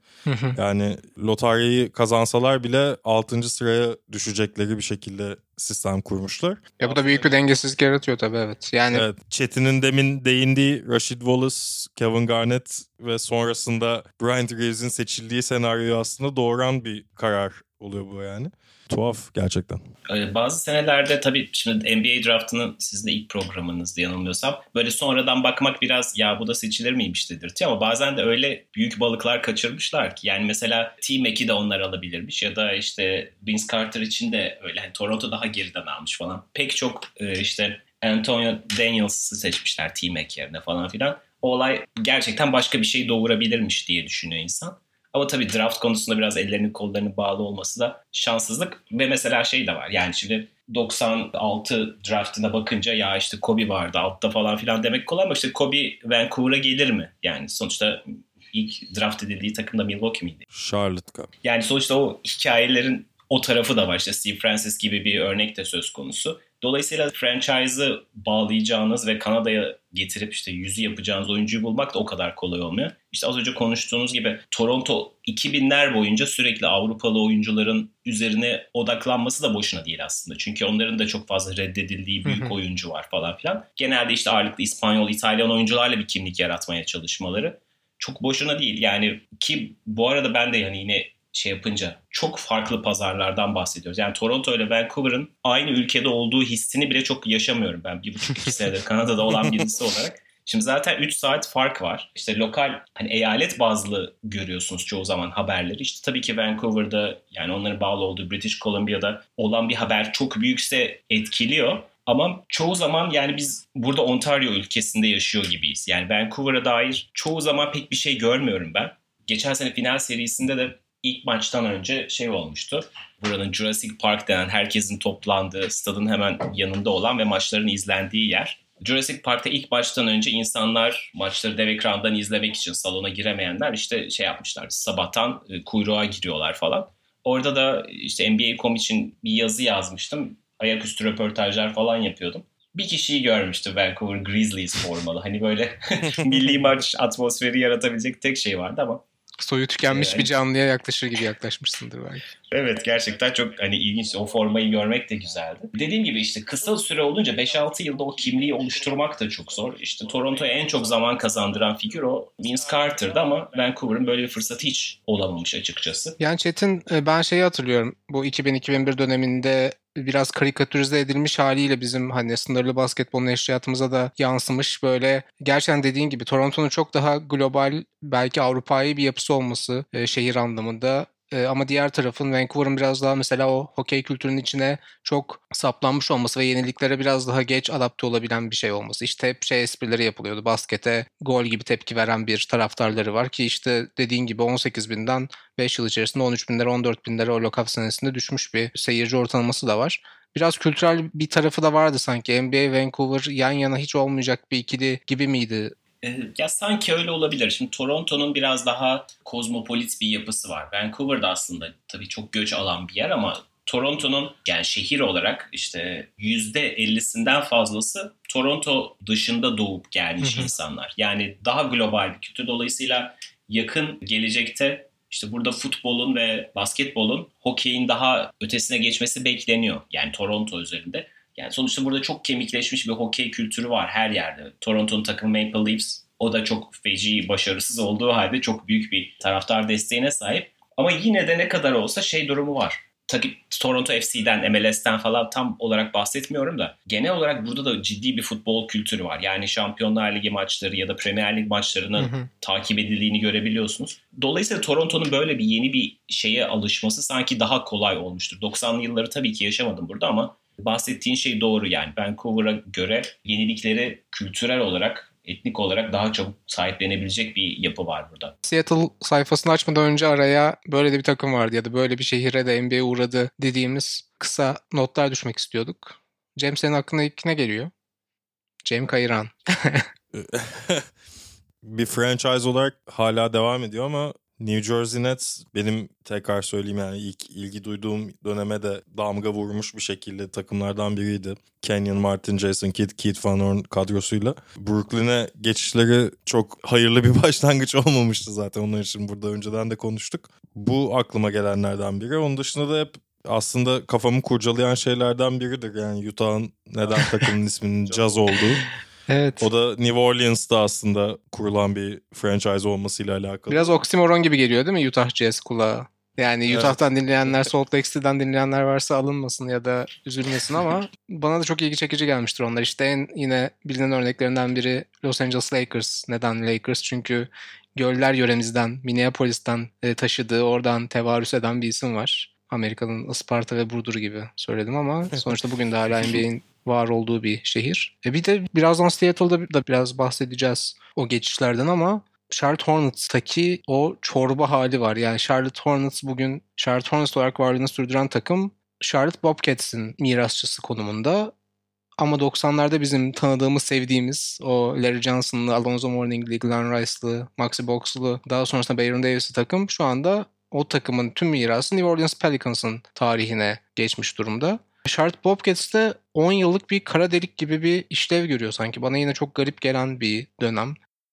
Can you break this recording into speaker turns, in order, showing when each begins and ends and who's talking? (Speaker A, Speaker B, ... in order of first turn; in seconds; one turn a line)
Speaker A: 0.2-0.6
Speaker B: 0.6-6.8
Speaker A: 6.8-9.1
Speaker B: 8.9-19.8
Speaker C: 20.1-60.4
Speaker B: 60.5-61.3
Speaker C: 61.4-149.0
Speaker A: 82.2-82.5
Speaker A: 149.4-152.2
Speaker C: 149.8-150.3
Speaker C: 152.5-166.2
Speaker A: 166.2-205.8
Speaker C: 206.0-268.4
Speaker A: 220.2-220.5
Speaker A: 252.0-252.3
Speaker A: 268.4-277.7
Speaker A: 278.6-279.9
Speaker B: 280.1-280.9
Speaker B: 281.6-308.6
Speaker A: 309.1-309.5
Speaker B: 309.4-313.8
Speaker A: 313.5-351.3
Speaker B: 316.5-316.8
Speaker A: 352.0-370.8